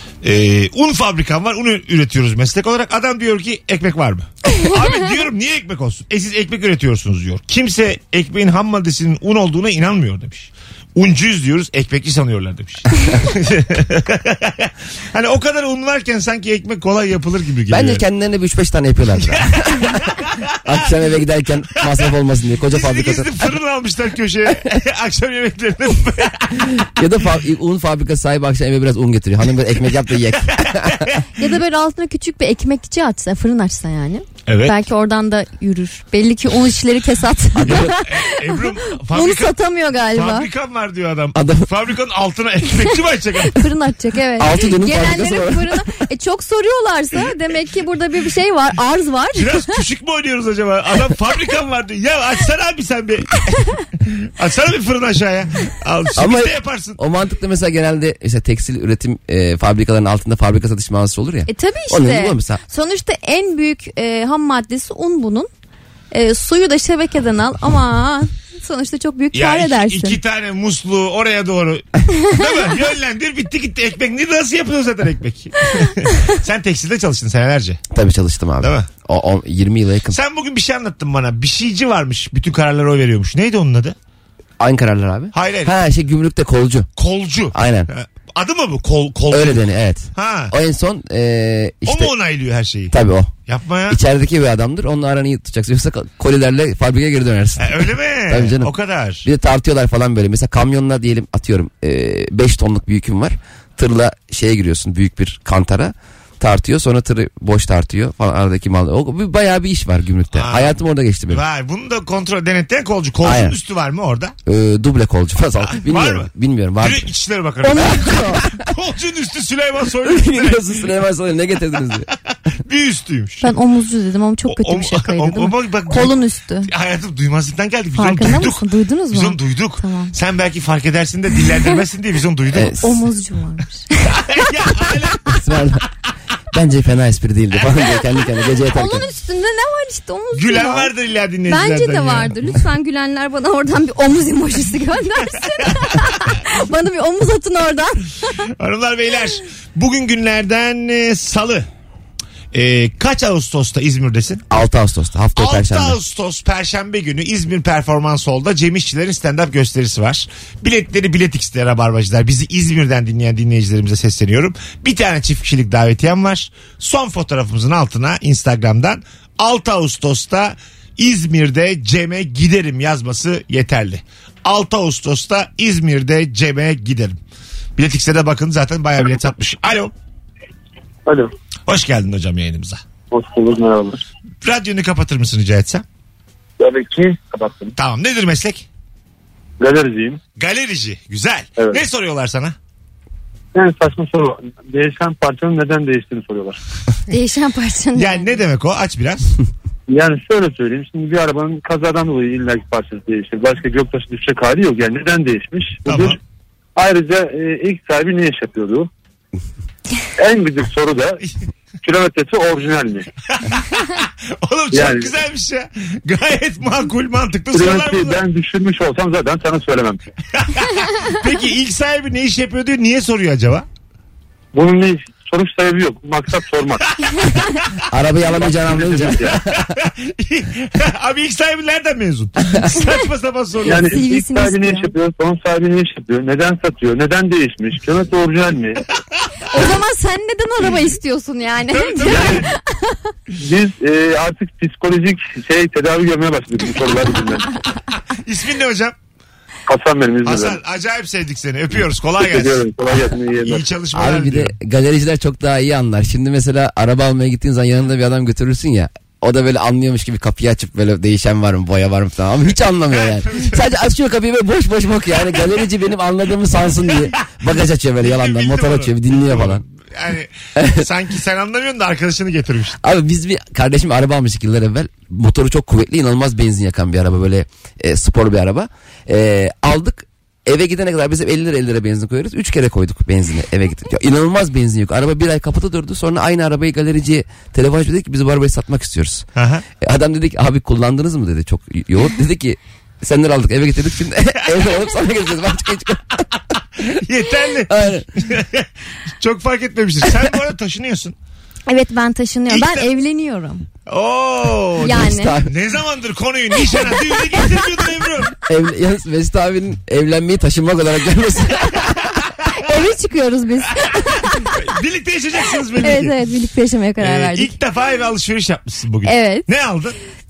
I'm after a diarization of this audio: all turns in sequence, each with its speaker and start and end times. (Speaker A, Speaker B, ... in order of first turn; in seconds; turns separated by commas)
Speaker A: 0.2-18.0, Speaker B: 17.7-23.4, Speaker A: 22.7-26.7, Speaker B: 26.8-31.1, Speaker A: 30.6-31.2, Speaker C: 31.4-40.5, Speaker A: 34.5-34.8, Speaker B: 37.6-38.0, Speaker A: 37.6-39.5, Speaker A: 40.1-43.7, Speaker B: 41.4-41.7, Speaker C: 43.4-49.7, Speaker B: 44.4-45.8, Speaker A: 49.4-53.6, Speaker A: 54.2-57.0, Speaker B: 56.2-62.6, Speaker C: 61.5-65.5, Speaker C: 66.1-70.2, Speaker A: 69.3-77.8, Speaker B: 77.9-80.2, Speaker A: 78.6-78.9, Speaker A: 80.1-84.0, Speaker B: 84.6-86.9, Speaker A: 85.3-85.7, Speaker A: 87.0-89.6, Speaker B: 87.5-87.9, Speaker B: 89.3-92.1, Speaker A: 90.2-90.5, Speaker A: 91.9-92.9, Speaker B: 92.9-93.3, Speaker A: 93.5-94.0, Speaker B: 93.9-98.7, Speaker A: 97.6-99.3, Speaker B: 99.2-111.4, Speaker A: 110.3-110.8, Speaker A: 111.3-114.3, Speaker B: 113.2-113.6, Speaker B: 114.5-117.1, Speaker A: 115.7-116.3, Speaker A: 116.8-118.0, Speaker C: 117.6-118.5, Speaker A: 118.6-120.7, Speaker B: 120.1-122.1, Speaker A: 122.6-123.5, Speaker C: 123.4-126.7, Speaker A: 124.5-126.2, Speaker A: 126.7-132.8, Speaker C: 127.9-130.1, Speaker B: 132.5-132.8, Speaker C: 132.8-134.2, Speaker A: 134.1-135.3, Speaker B: 135.3-135.8, Speaker B: 136.5-139.1, Speaker C: 138.7-140.9, Speaker A: 140.3-142.5, Speaker C: 141.5-148.3, Speaker A: 148.6-151.7, Speaker A: 152.5-154.4, Speaker B: 154.5-156.0, Speaker A: 155.4-177.2, Speaker A: 177.8-179.9, Speaker A: 181.7-182.8, Speaker D: 183.1-184.0, Speaker A: 184.4-185.8, Speaker D: 186.6-187.8, Speaker A: 187.8-188.7, Speaker D: 189.6-190.2, Speaker A: 190.4-192.6, Speaker D: 193.5-196.6, Speaker C: 197.1-198.4, Speaker A: 197.9-199.3, Speaker D: 199.9-206.2, Speaker A: 205.9-206.2, Speaker D: 206.8-208.9, Speaker D: 210.2-211.2, Speaker D: 211.8-213.1, Speaker A: 213.4-218.2, Speaker D: 214.7-215.1, Speaker D: 217.5-220.0, Speaker A: 220.3-223.7, Speaker D: 224.5-226.8, Speaker A: 227.0-227.8, Speaker B: 227.9-229.7, Speaker D: 228.2-229.4, Speaker A: 229.3-233.9, Speaker D: 233.6-238.8, Speaker C: 233.8-234.9, Speaker C: 239.5-243.0, Speaker A: 241.7-242.5, Speaker D: 242.1-242.4, Speaker D: 243.4-247.5, Speaker A: 247.9-248.9, Speaker D: 249.7-250.6, Speaker A: 250.2-252.6, Speaker D: 252.2-253.7, Speaker A: 253.4-254.5, Speaker B: 253.9-269.6, Speaker A: 263.0-263.6, Speaker A: 268.0-272.8, Speaker B: 270.6-270.9, Speaker B: 272.8-289.3, Speaker A: 289.4-289.6, Speaker B: 289.8-296.2, Speaker A: 296.8-298.7, Speaker B: 297.7-298.1, Speaker A: 299.2-301.1, Speaker C: 301.7-303.7, Speaker A: 302.5-302.9, Speaker A: 303.9-308.3, Speaker C: 304.8-305.3, Speaker B: 304.9-305.5, Speaker C: 306.7-307.4, Speaker B: 308.5-311.8, Speaker C: 312.5-314.6, Speaker A: 314.5-316.1, Speaker C: 315.8-317.6, Speaker A: 317.0-320.0, Speaker C: 319.0-319.5